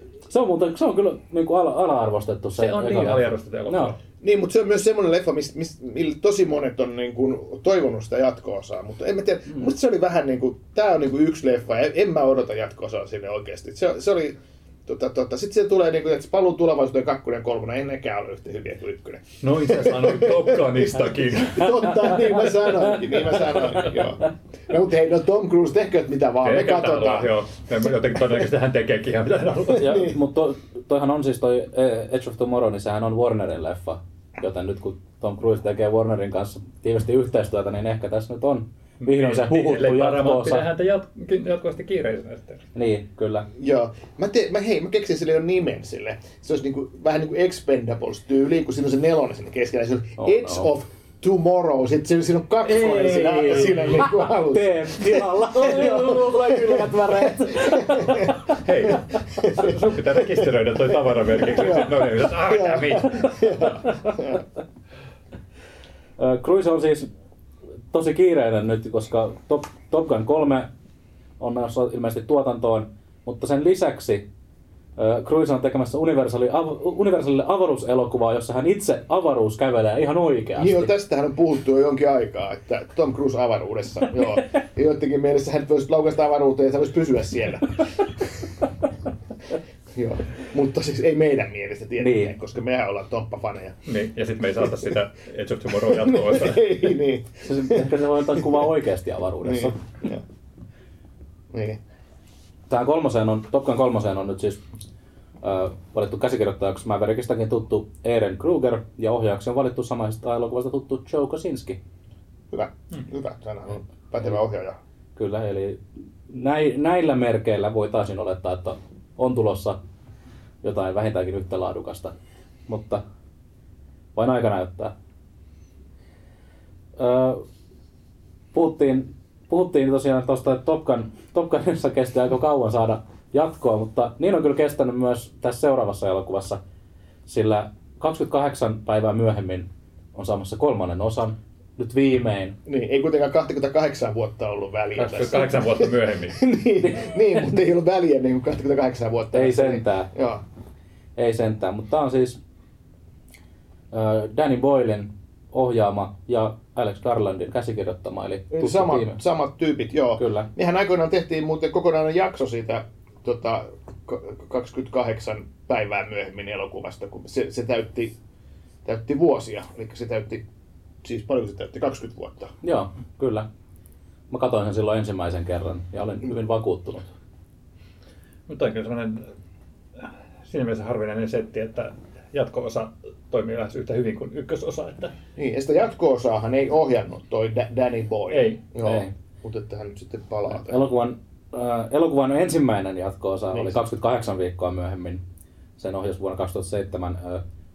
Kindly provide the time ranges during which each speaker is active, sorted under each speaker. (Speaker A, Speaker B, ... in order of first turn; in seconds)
Speaker A: 0.3-3.9, 21.6-23.9, 29.8-40.6, 42.8-43.5, 50.2-50.7, 52.6-59.0, 66.2-67.1, 67.9-70.7, 71.4-74.3, 75.0-80.9, 92.0-92.3, 97.5-99.8, 102.7-104.6, 105.4-111.8, 115.2-119.8, 120.6-122.1, 122.7-123.0, 124.2-124.9, 127.0-127.4, 128.5-136.6, 137.3-142.6, 146.8-147.6, 149.3-150.1, 151.2-152.4, 153.9-159.2, 160.2-160.5, 172.6-173.5, 174.3-177.1, 188.8-189.1, 190.5-195.2, 195.8-197.4
Speaker B: 2.6-4.0, 19.4-22.1, 26.4-29.9, 39.0-42.7, 53.2-54.1, 58.6-63.7, 93.9-96.8, 145.0-146.4, 178.5-179.3, 180.0-185.1, 188.3-188.6
Speaker C: 4.2-27.3, 29.7-30.1, 43.6-58.4, 59.4-64.4, 80.6-88.3, 89.9-93.8, 95.9-98.7, 99.4-100.2, 101.5-101.8, 112.5-114.8, 142.7-150.4, 158.5-168.2, 168.8-170.5, 171.0-172.5, 185.4-190.8